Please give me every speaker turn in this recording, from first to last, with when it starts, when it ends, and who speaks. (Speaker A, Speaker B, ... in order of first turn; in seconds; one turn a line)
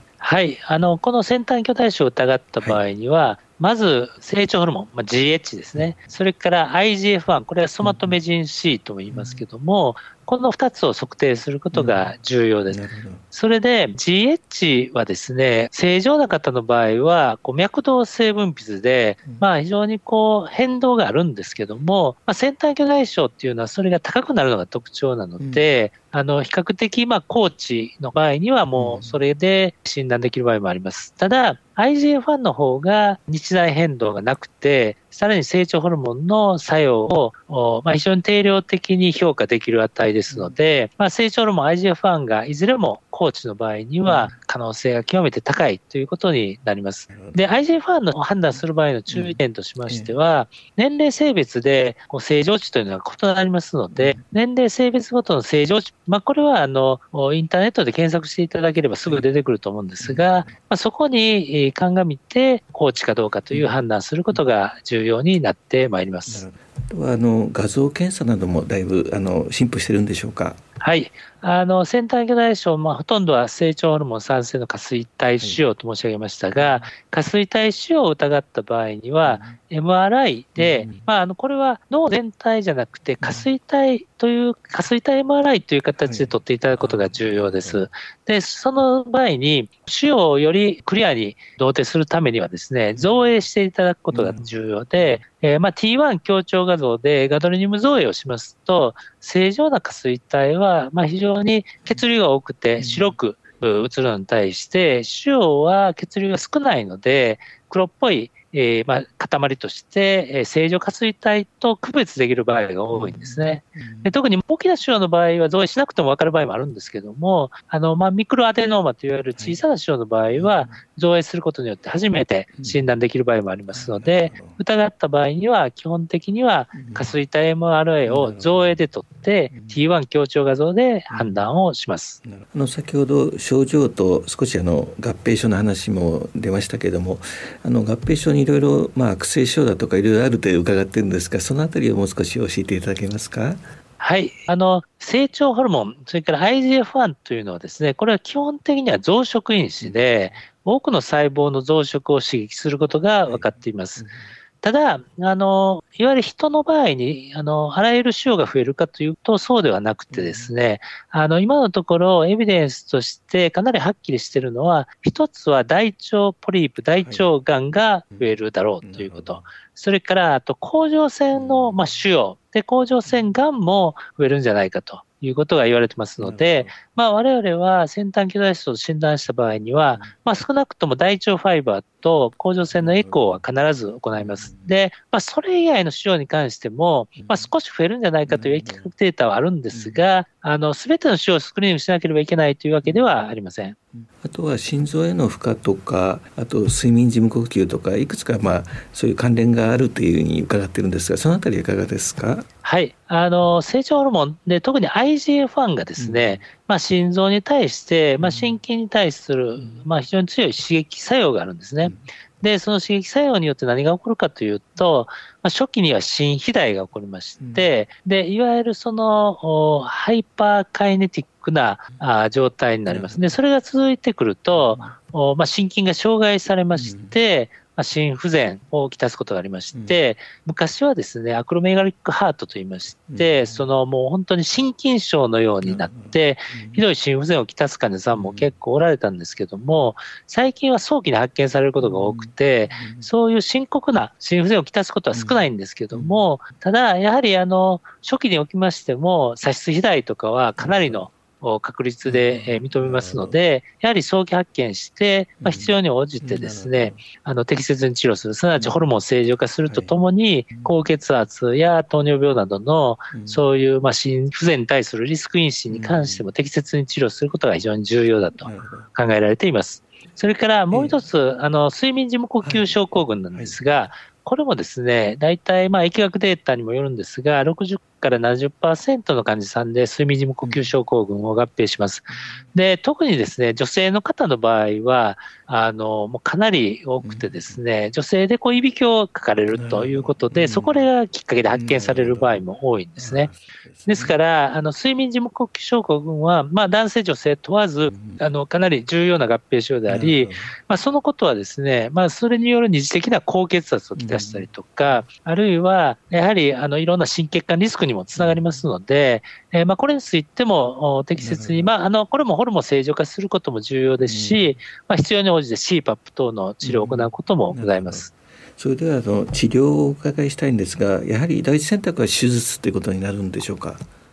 Speaker A: 0.2-66.5
Speaker B: 7.8-8.2
Speaker B: 9.1-9.4
Speaker B: 11.7-12.1
Speaker B: 12.7-13.2
Speaker B: 25.4-25.7
Speaker B: 28.7-29.2
Speaker B: 40.3-40.6
Speaker B: 44.0-44.4
Speaker B: 47.1-47.5
Speaker B: 49.1-50.1
Speaker B: 53.9-54.3
Speaker B: 60.0-60.6
Speaker B: 66.3-70.6
Speaker A: 70.8-132.2
Speaker B: 76.6-76.9
Speaker B: 79.2-79.6
Speaker B: 80.6-81.1
Speaker B: 83.2-83.5
Speaker B: 86.0-87.9
Speaker B: 94.1-95.1
Speaker B: 102.8-103.2
Speaker B: 112.9-114.2
Speaker B: 119.3-119.6
Speaker B: 120.3-120.8
Speaker B: 122.6-122.8
Speaker B: 123.7-124.6
Speaker B: 126.7-127.2
Speaker B: 128.1-128.8
Speaker B: 129.5-129.8
Speaker B: 131.1-131.5
Speaker B: 132.2-143.6
Speaker A: 144.0-154.1
Speaker B: 149.8-150.4
Speaker B: 153.3-154.3
Speaker A: 154.6-193.8
Speaker B: 160.1-160.5
Speaker B: 167.0-167.3
Speaker B: 168.2-169.5
Speaker B: 171.3-171.8
Speaker B: 176.2-176.8
Speaker B: 182.7-183.4
Speaker B: 184.1-184.7
Speaker B: 187.2-187.5
Speaker B: 188.3-188.9
Speaker B: 189.7-190.0
Speaker B: 192.8-193.1
Speaker B: 194.0-202.5
Speaker A: 202.6-293.3
Speaker B: 206.0-206.4
Speaker B: 208.2-208.6
Speaker B: 209.6-209.9
Speaker B: 211.8-212.1
Speaker B: 217.4-217.7
Speaker B: 222.9-223.4
Speaker B: 224.5-225.0
Speaker B: 226.8-227.2
Speaker B: 233.1-233.7
Speaker B: 235.6-236.8
Speaker B: 238.1-238.5
Speaker B: 241.8-243.1
Speaker B: 245.1-246.2
Speaker B: 250.6-251.1
Speaker B: 252.1-253.4
Speaker B: 255.4-257.0
Speaker B: 259.7-259.9
Speaker B: 263.1-263.4
Speaker B: 265.7-266.3
Speaker B: 268.4-268.9
Speaker B: 270.7-271.0
Speaker B: 272.4-273.6
Speaker B: 280.4-280.8
Speaker B: 282.1-282.5
Speaker B: 287.0-287.6
Speaker B: 289.5-290.9
Speaker B: 291.5-292.4
Speaker B: 293.0-294.1
Speaker A: 293.9-318.1
Speaker B: 297.9-298.2
Speaker B: 299.9-300.5
Speaker B: 304.0-304.5
Speaker B: 308.1-308.7
Speaker B: 311.2-311.7
Speaker B: 314.0-314.6
Speaker B: 316.6-318.1
Speaker B: 318.6-323.8